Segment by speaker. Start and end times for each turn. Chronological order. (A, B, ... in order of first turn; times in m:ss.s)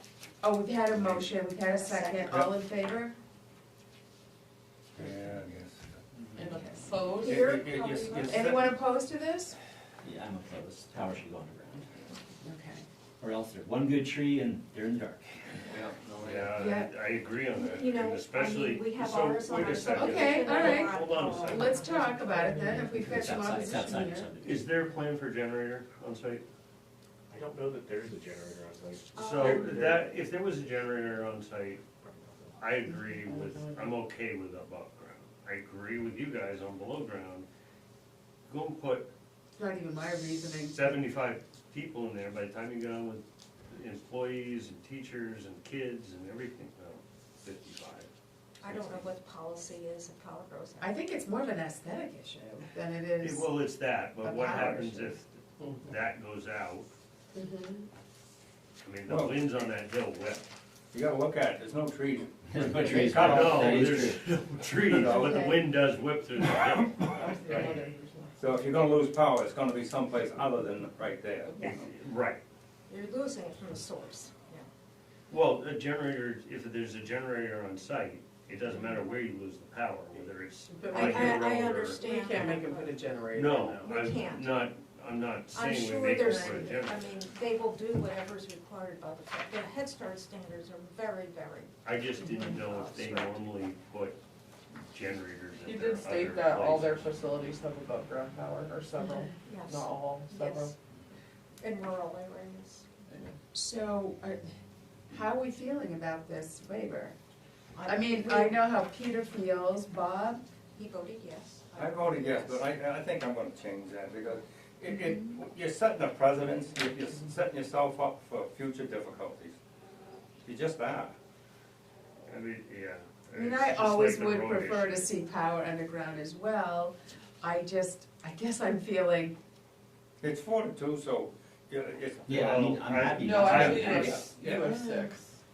0:00.4-0:03.1 A
0:01.6-0:02.4 B
0:05.0-0:05.8 C
0:06.4-0:07.7 D
0:07.2-0:08.4 B
0:07.2-0:08.8 C
0:08.3-0:09.6 A
0:10.0-0:11.9 E
0:12.4-0:12.8 A
0:13.2-0:15.8 E
0:15.7-0:16.5 C
0:16.2-0:21.8 F
0:16.5-0:16.9 A
0:17.5-0:22.4 B
0:19.9-0:24.3 A
0:22.5-0:24.6 E
0:24.4-0:26.4 F
0:27.3-0:29.5 G
0:29.1-0:29.8 B
0:29.2-0:31.8 F
0:32.6-0:37.4 F
0:33.1-0:34.0 D
0:38.5-0:39.1 F
0:39.6-0:40.9 A
0:40.7-0:48.1 F
0:48.6-0:50.9 B
0:48.6-0:49.1 F
0:50.8-0:53.5 A
0:53.2-0:56.9 F
0:54.2-0:55.2 A
0:57.3-0:57.9 A
0:58.8-1:00.5 F
0:59.1-0:59.4 C
1:00.9-1:04.0 C
1:02.5-1:04.3 E
1:02.9-1:07.8 F
1:04.8-1:05.6 C
1:05.0-1:05.6 A
1:07.1-1:08.5 D
1:08.4-1:11.6 C
1:11.6-1:12.4 F
1:12.9-1:14.7 B
1:15.3-1:22.0 F
1:20.7-1:24.0 D
1:20.8-1:24.7 B
1:23.3-1:27.2 F
1:25.5-1:33.4 B
1:31.8-1:34.2 F
1:34.9-1:37.1 F
1:35.6-1:40.8 D
1:39.4-1:40.7 B
1:41.6-1:42.9 B
1:43.1-1:43.4 D
1:43.5-1:44.4 A
1:45.1-1:47.1 A
1:47.8-1:48.6 B
1:47.8-1:50.4 A
1:50.8-1:52.7 B
1:51.8-1:59.6 C
1:54.9-1:55.3 A
2:00.4-2:01.1 C
2:02.2-2:05.1 F
2:03.3-2:09.4 A
2:10.2-2:14.2 C
2:12.3-2:14.2 E
2:12.4-2:14.5 F
2:13.1-2:15.4 D
2:14.5-2:15.1 A